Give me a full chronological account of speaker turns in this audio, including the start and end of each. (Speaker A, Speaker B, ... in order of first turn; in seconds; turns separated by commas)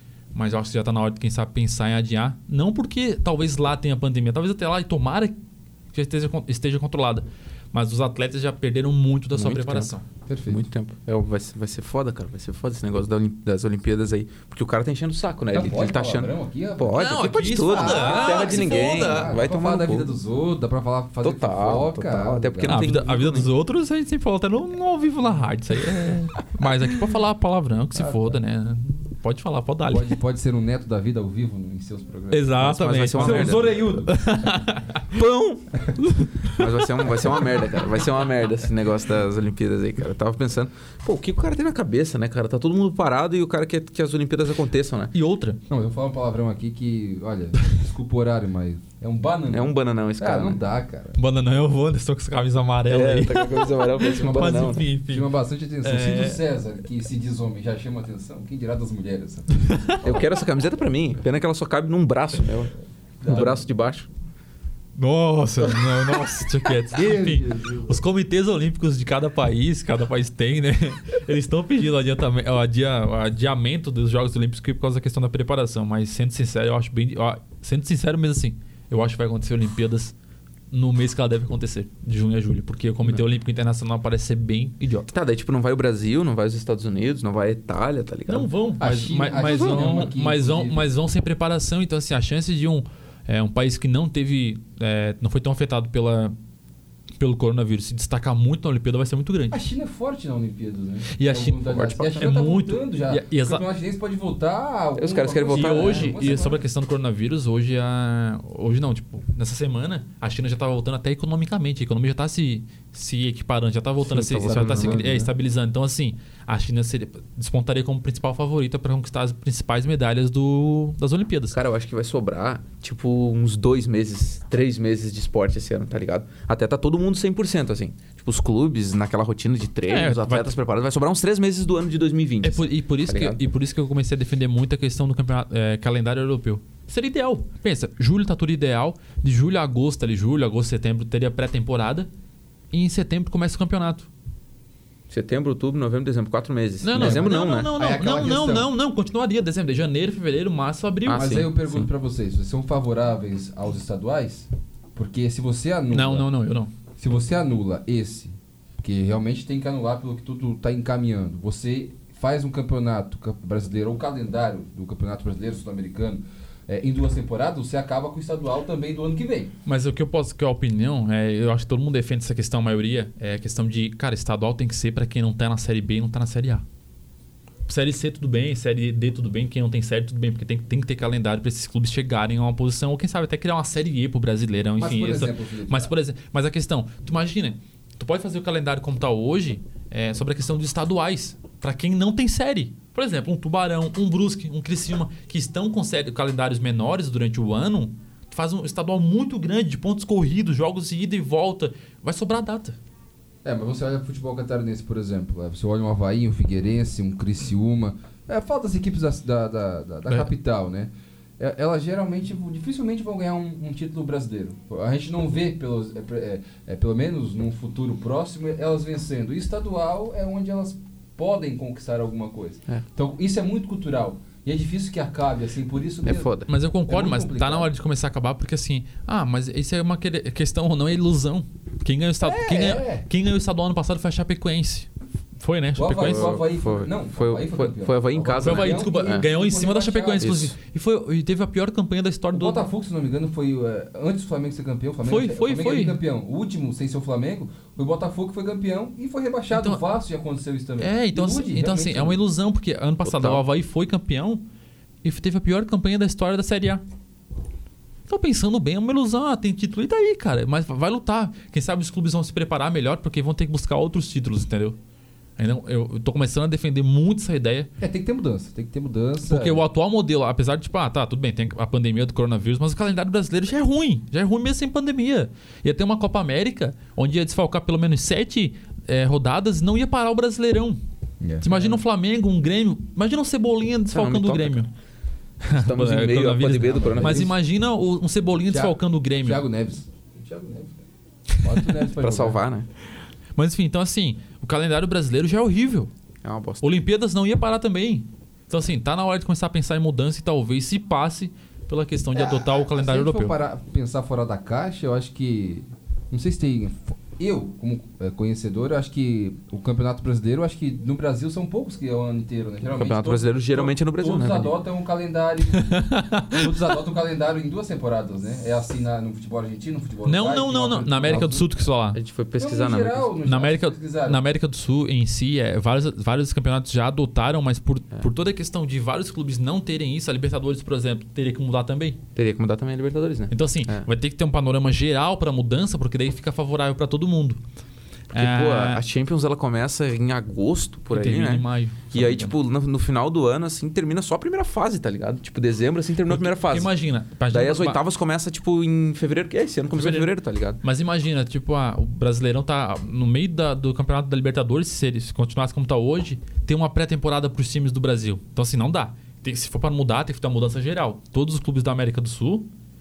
Speaker A: 0.3-5.3, Speaker A: 5.9-10.0, Speaker B: 9.3-9.9, Speaker C: 10.3-10.6, Speaker B: 10.5-20.1, Speaker C: 15.5-22.9, Speaker A: 16.9-19.4, Speaker B: 21.2-23.5, Speaker A: 22.6-30.1, Speaker C: 29.9-34.1, Speaker A: 32.3-35.0, Speaker B: 32.6-33.8, Speaker B: 35.1-35.8, Speaker A: 36.0-36.6, Speaker B: 36.5-45.1, Speaker A: 45.1-45.6, Speaker C: 45.7-51.2, Speaker B: 49.5-50.6, Speaker A: 51.2-55.3, Speaker B: 52.9-54.8, Speaker C: 54.0-60.3, Speaker A: 55.8-56.4, Speaker A: 59.6-60.0, Speaker B: 60.0-62.7, Speaker C: 63.2-63.6, Speaker B: 63.2-64.1, Speaker A: 65.0-80.1, Speaker C: 66.9-68.0, Speaker A: 80.7-85.1, Speaker B: 85.1-88.5, Speaker A: 88.3-96.3, Speaker C: 88.8-90.9, Speaker B: 89.4-90.0, Speaker A: 97.2-99.6, Speaker C: 99.5-106.6, Speaker A: 101.1-103.6, Speaker B: 101.6-102.3, Speaker B: 105.0-106.2, Speaker A: 105.5-121.6, Speaker B: 114.0-115.2, Speaker C: 114.4-115.3, Speaker B: 121.5-133.4, Speaker A: 129.9-130.6, Speaker A: 132.4-142.1, Speaker A: 142.7-144.1, Speaker B: 145.1-147.7, Speaker A: 146.8-151.4, Speaker C: 146.9-148.7, Speaker B: 151.1-151.9, Speaker C: 151.1-156.2, Speaker A: 155.9-156.7, Speaker C: 157.0-169.5, Speaker A: 169.7-176.6, Speaker A: 177.7-202.8, Speaker C: 184.8-185.9, Speaker C: 203.4-227.7, Speaker B: 226.0-226.5, Speaker A: 226.5-236.3, Speaker C: 232.2-233.0, Speaker C: 235.8-240.4, Speaker B: 236.0-239.3, Speaker A: 238.4-242.6, Speaker B: 240.2-240.5, Speaker C: 242.3-252.2, Speaker A: 245.0-246.0, Speaker A: 249.5-249.8, Speaker A: 250.8-254.4, Speaker B: 253.0-253.4, Speaker A: 255.0-256.8, Speaker A: 258.1-264.8, Speaker A: 265.4-267.7, Speaker C: 267.8-269.6, Speaker A: 269.2-280.8, Speaker C: 281.2-281.8, Speaker A: 281.4-284.7, Speaker B: 283.9-284.6, Speaker A: 285.4-289.4, Speaker B: 285.5-287.3, Speaker C: 286.7-287.3, Speaker C: 288.5-290.8, Speaker A: 291.4-291.6, Speaker C: 291.4-292.4, Speaker B: 292.0-292.7, Speaker A: 293.4-295.9, Speaker B: 296.2-296.7, Speaker A: 296.6-303.3, Speaker C: 302.1-315.8, Speaker B: 312.7-314.5, Speaker A: 315.5-316.4, Speaker C: 316.3-321.5, Speaker A: 320.1-322.0, Speaker B: 321.9-323.1, Speaker C: 322.4-324.2, Speaker A: 323.2-332.0, Speaker B: 332.1-333.9, Speaker A: 333.3-337.4, Speaker A: 338.1-338.8, Speaker B: 338.1-346.7, Speaker A: 340.9-342.4, Speaker A: 346.1-347.8, Speaker B: 347.3-350.6, Speaker A: 349.7-362.5